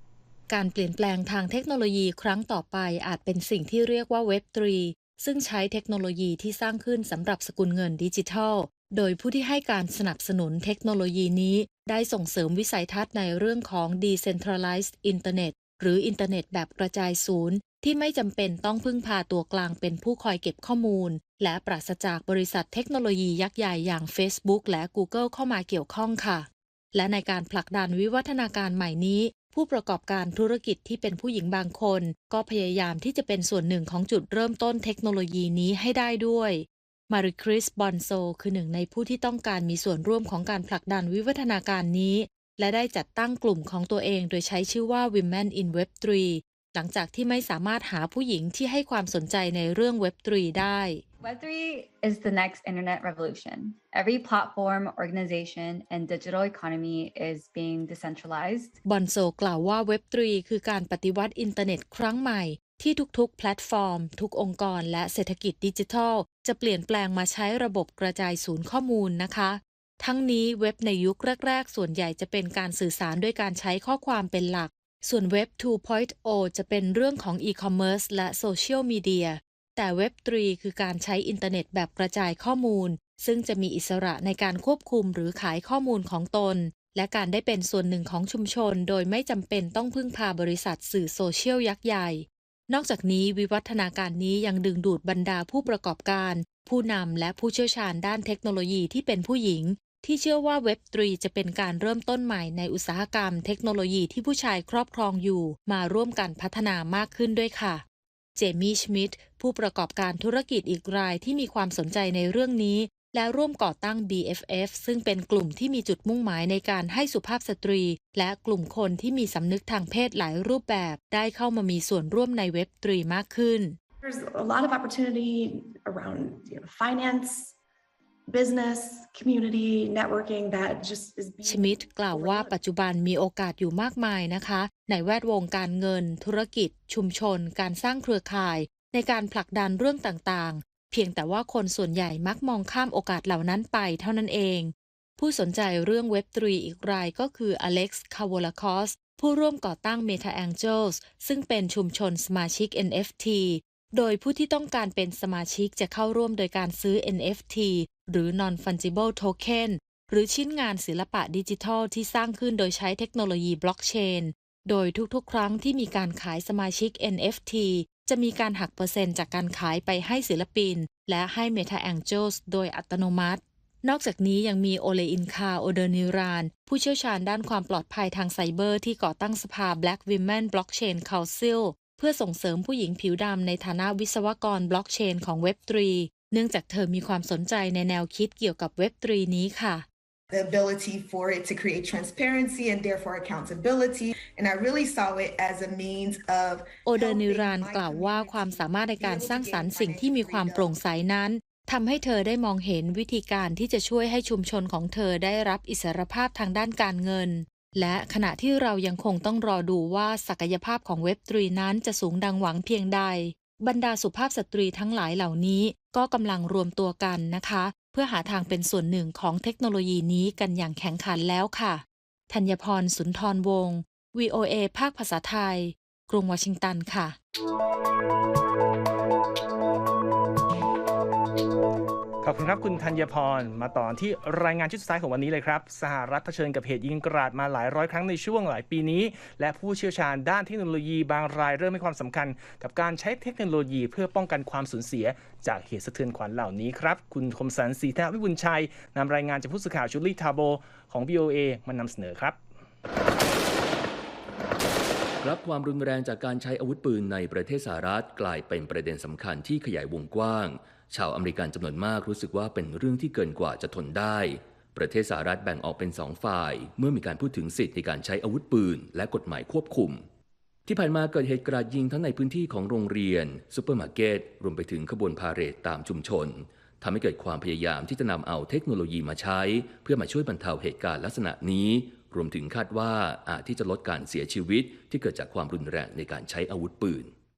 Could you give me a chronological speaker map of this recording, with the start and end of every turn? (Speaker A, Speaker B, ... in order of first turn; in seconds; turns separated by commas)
Speaker A: 0.5-51.0, Speaker B: 51.2-58.8, Speaker A: 58.9-107.8, Speaker A: 108.4-123.8, Speaker C: 124.0-127.5, Speaker C: 128.3-132.6, Speaker A: 131.4-189.9, Speaker D: 190.3-196.6, Speaker C: 190.5-200.5, Speaker A: 196.8-227.2, Speaker D: 197.3-197.8, Speaker D: 199.1-200.7, Speaker E: 232.2-252.4, Speaker F: 255.2-270.1, Speaker F: 270.7-287.1